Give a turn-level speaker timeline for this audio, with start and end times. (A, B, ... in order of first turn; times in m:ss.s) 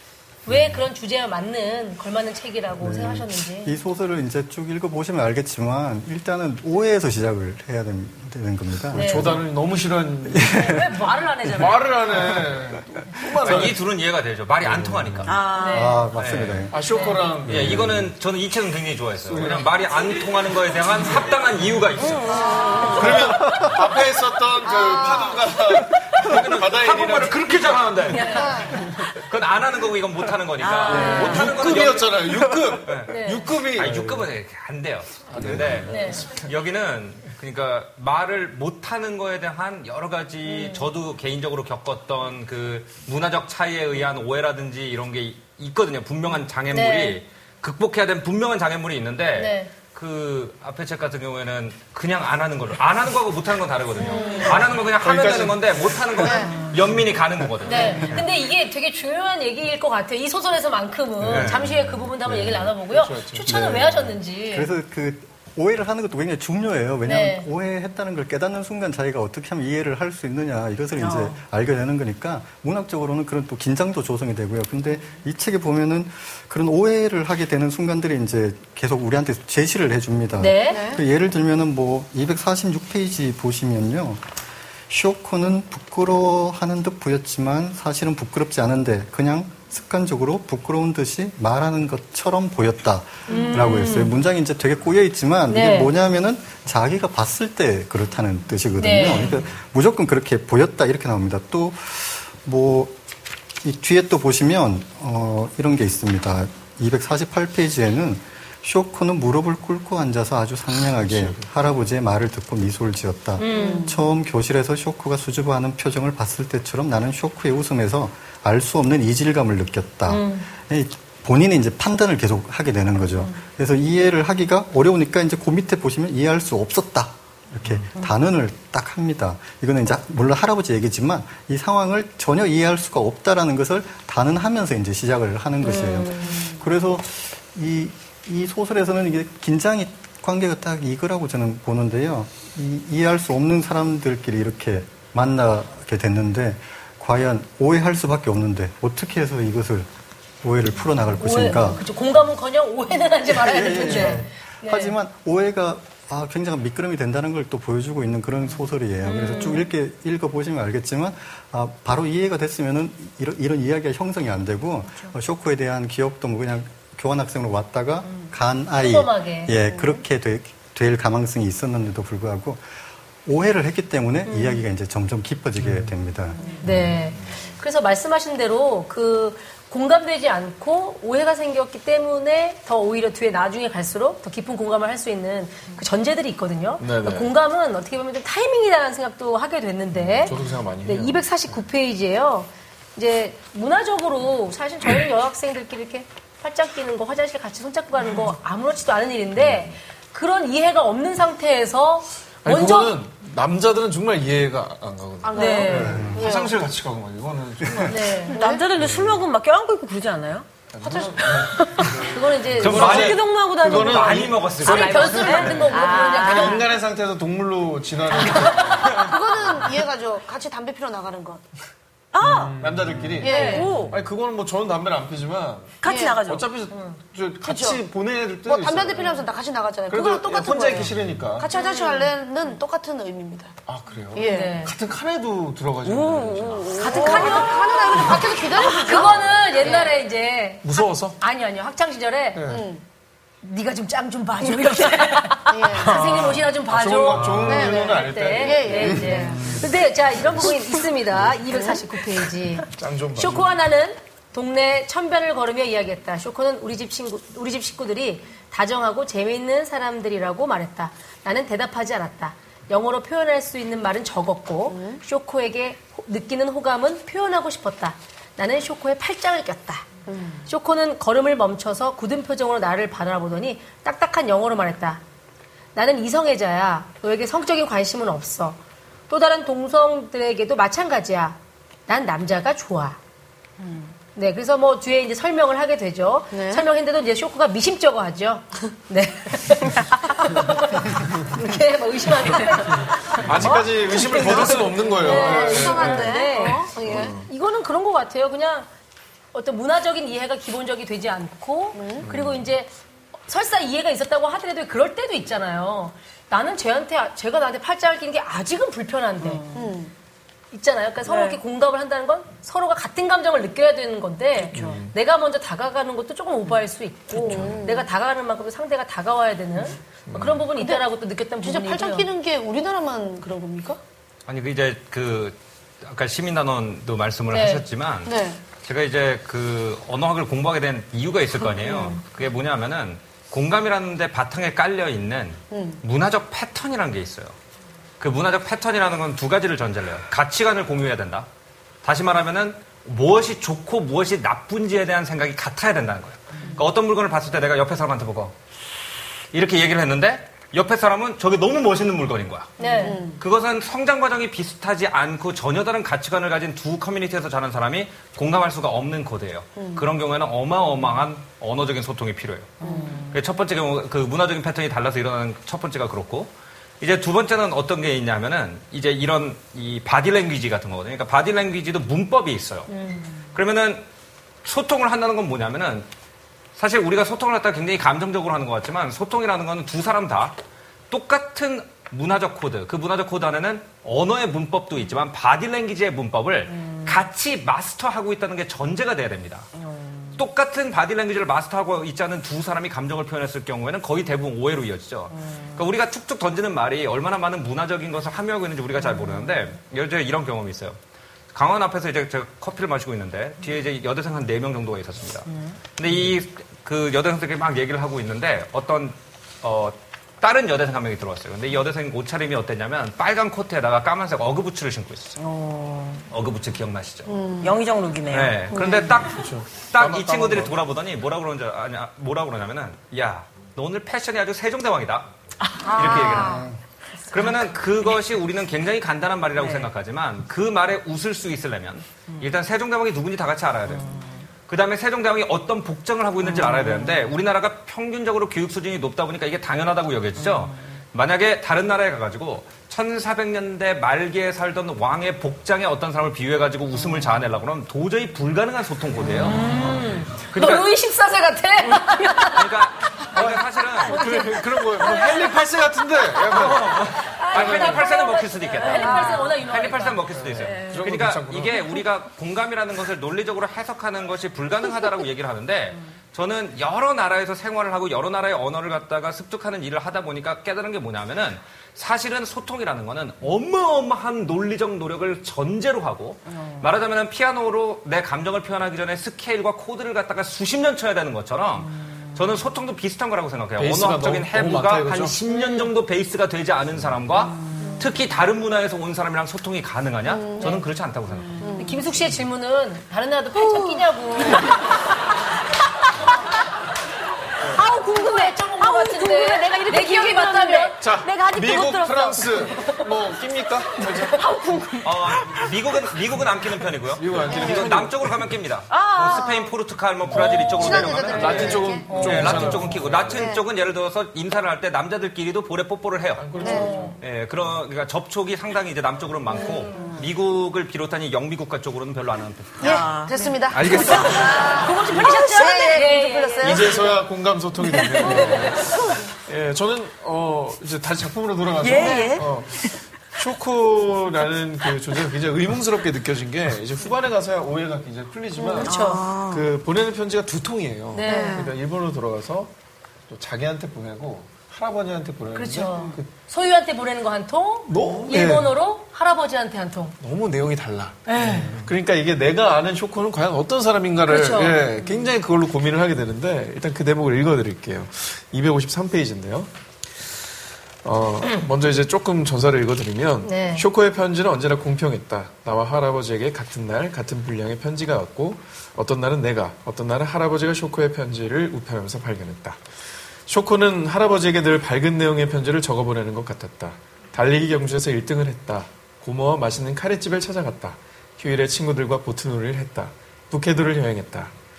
0:00.4-0:03.7 A
0:00.5-0:00.9 B
0:02.8-0:09.4 B
0:08.9-0:10.6 C
0:08.9-0:09.4 A
0:10.2-0:10.9 B
0:10.5-0:11.9 A
0:11.5-0:13.8 C
0:12.2-0:12.4 B
0:13.3-0:13.8 B
0:13.4-0:15.4 D
0:14.6-0:16.8 B
0:15.2-0:16.1 E
0:15.5-0:16.0 A
0:16.2-0:16.7 D
0:16.7-0:18.1 C
0:16.9-0:17.2 A
0:17.4-0:18.1 B
0:17.4-0:22.6 D
0:19.2-0:19.8 C
0:22.0-0:23.7 E
0:22.3-0:23.0 F
0:22.9-0:28.0 C
0:24.6-0:25.4 F
0:26.2-0:32.2 D
0:28.1-0:28.6 E
0:28.1-0:28.5 A
0:28.3-0:28.7 F
0:28.7-0:29.0 C
0:30.6-0:31.9 E
0:30.9-0:31.5 A
0:30.9-0:34.3 C
0:32.8-0:58.2 D
0:33.1-0:33.5 A
0:35.3-0:36.5 C
0:35.8-0:36.2 A
0:40.5-0:40.8 F
0:46.7-0:47.2 A
0:49.3-0:49.7 A
0:54.0-0:54.6 F
0:54.1-0:54.5 A
0:54.7-0:58.2 C
0:56.2-0:56.6 F
0:57.6-1:04.7 A
1:01.2-1:01.6 D
1:01.3-1:01.6 C
1:01.3-1:02.7 B
1:02.5-1:03.5 C
1:03.4-1:24.3 B
1:07.0-1:07.5 A
1:11.0-1:11.4 E
1:20.4-1:20.8 A
1:20.7-1:21.0 F
1:24.9-1:43.0 B
1:33.3-1:34.1 A
1:35.5-1:35.9 A
1:38.8-1:39.4 A
1:43.6-2:29.9 B
1:50.9-1:51.5 C
1:53.4-1:53.9 A
1:53.5-1:54.0 F
2:00.1-2:00.5 A
2:15.6-2:16.5 A
2:30.4-2:31.8 B
2:31.2-2:34.9 A
2:33.3-2:52.7 B
2:33.8-2:34.2 F
2:39.1-2:39.6 A
2:48.8-2:49.5 A
2:49.6-2:50.0 F
2:53.2-2:56.4 B
2:55.6-2:55.9 C
2:56.4-2:56.6 F
2:56.6-2:57.6 C
2:56.6-3:22.9 A
3:06.8-3:07.3 C
3:09.9-3:11.6 C
3:19.4-3:19.7 C
3:22.4-3:28.2 C
3:25.2-3:26.6 F
3:25.3-3:26.1 A
3:25.9-3:26.2 B
3:27.8-3:28.4 A
3:28.3-3:28.7 F
3:28.3-3:32.0 E
3:28.8-3:29.1 B
3:30.7-3:34.5 C
3:30.8-3:31.1 F
3:32.0-3:33.0 A
3:32.6-3:36.7 E
3:32.6-3:35.4 D
3:34.6-3:36.6 A
3:35.1-3:39.6 C
3:38.1-3:38.8 E
3:38.8-3:41.4 F
3:42.1-3:42.7 E
3:42.3-3:49.3 C
3:43.2-3:43.7 F
3:43.2-3:43.7 A
3:43.2-3:44.0 E
3:45.8-3:46.5 E
3:45.8-3:46.2 F
3:46.7-3:47.0 A
3:47.4-3:47.8 F
3:48.4-3:53.5 F
3:49.9-3:51.5 C
3:51.5-3:52.1 A
3:53.6-3:58.3 C
3:54.1-3:54.6 F
3:54.2-3:54.7 A
3:55.8-3:58.6 E
3:56.8-4:02.4 A
3:56.9-3:59.3 F
3:59.6-3:59.9 E
4:00.6-4:01.2 C
4:02.3-4:02.7 C
4:02.5-4:02.8 F
4:03.4-4:29.8 A
4:05.5-4:06.0 F
4:05.8-4:10.6 C
4:07.4-4:09.6 F
4:11.1-4:11.4 C
4:11.5-4:11.8 F
4:12.7-4:13.6 C
4:24.7-4:25.0 F
4:30.1-4:30.5 F
4:30.5-4:35.0 A
4:35.7-4:38.6 A
4:39.1-4:43.0 A
4:43.6-4:43.9 E
4:44.1-4:58.7 A
4:46.3-4:46.6 F
4:53.2-4:57.3 C
4:53.9-4:57.1 F
4:59.3-5:02.7 A
5:01.7-5:02.0 F
5:02.0-5:02.5 C
5:03.3-5:09.4 A
5:09.2-5:09.7 E
5:09.5-5:09.9 F
5:10.5-5:22.1 A
5:11.0-5:11.4 E
5:14.5-5:14.9 C
5:14.5-5:14.8 E
5:17.2-5:17.9 F
5:17.3-5:17.7 C
5:20.0-5:20.5 C
5:20.6-5:20.8 F
5:21.4-5:23.8 F
5:24.3-5:37.4 D
5:27.3-5:27.6 A
5:28.0-5:28.4 F
5:31.4-5:32.0 A
5:35.5-5:35.8 F
5:38.0-5:41.3 D
5:41.8-5:48.3 D
5:49.3-5:52.6 D
5:52.6-5:53.0 A
5:52.6-5:53.2 F
5:53.2-6:12.7 D
5:59.6-5:59.9 F
6:02.6-6:03.1 E
6:02.6-6:03.0 F
6:12.7-6:13.0 A
6:13.3-6:13.8 D
6:14.4-6:15.9 D
6:16.6-6:20.3 D
6:20.9-6:29.5 D
6:26.5-6:27.0 E
6:29.6-6:30.2 E
6:30.2-6:40.8 D
6:35.1-6:35.6 E
6:38.7-6:39.5 E
6:41.3-6:55.2 D
6:45.3-6:45.6 E
6:55.2-6:56.0 E
6:56.1-6:57.1 D
6:57.1-6:57.6 F
6:57.4-6:58.8 E
6:58.1-7:05.1 D
6:58.5-6:58.8 F
6:58.9-7:00.6 C
7:05.4-7:06.4 E
7:05.6-7:06.4 F
7:05.7-7:06.5 D
7:07.1-7:13.9 D
7:09.4-7:09.7 E
7:13.8-7:14.0 E
7:14.5-7:30.7 D
7:16.2-7:17.1 E
7:20.2-7:20.8 E
7:29.2-7:32.7 A
7:29.4-7:29.9 C
7:32.3-7:34.2 D
7:33.1-7:37.7 C
7:33.8-7:35.3 A
7:36.2-8:11.4 D
7:37.0-7:40.1 A
7:38.5-7:39.4 E
7:40.2-7:41.8 C
7:40.4-7:40.8 E
7:56.3-7:56.7 E
8:01.6-8:02.2 E
8:03.6-8:05.2 C
8:10.0-8:10.6 F
8:11.4-8:11.8 F
8:11.6-8:14.5 A
8:13.4-8:13.8 E
8:17.5-8:22.8 E
8:17.6-8:20.7 A
8:20.8-8:24.2 C
8:24.0-8:25.4 E
8:24.8-8:36.4 D
8:26.9-8:28.2 C
8:27.3-8:27.9 F
8:27.3-8:27.6 E
8:28.7-8:29.3 E
8:28.9-8:29.5 F
8:30.1-8:31.1 A
8:30.2-8:30.8 E
8:30.5-8:32.5 F
8:31.1-8:33.3 C
8:31.8-8:32.7 A
8:33.1-8:33.4 F
8:36.2-8:37.0 C
8:36.4-8:36.7 F
8:36.4-8:37.0 A
8:37.0-8:42.9 D
8:39.3-8:40.0 E
8:39.3-8:39.9 A
8:39.4-8:39.8 F
8:42.6-8:46.8 E
8:42.6-8:47.0 F
8:43.5-8:44.4 C
8:43.6-8:43.8 D
8:43.7-8:46.8 A
8:46.4-8:58.8 C
8:47.7-8:48.5 E
8:48.0-8:48.6 A
8:51.6-8:52.7 E
8:51.7-8:52.2 F
8:58.4-8:59.4 F
8:58.5-8:59.4 E
8:58.6-8:59.0 A
8:59.3-9:02.5 C
9:00.9-9:01.4 A
9:01.0-9:01.5 F
9:03.1-9:06.1 C
9:05.3-9:09.9 A
9:07.6-9:08.5 C
9:10.0-9:19.5 C
9:11.0-9:11.5 A
9:14.1-9:14.6 A
9:20.8-9:44.3 C
9:23.2-9:23.6 A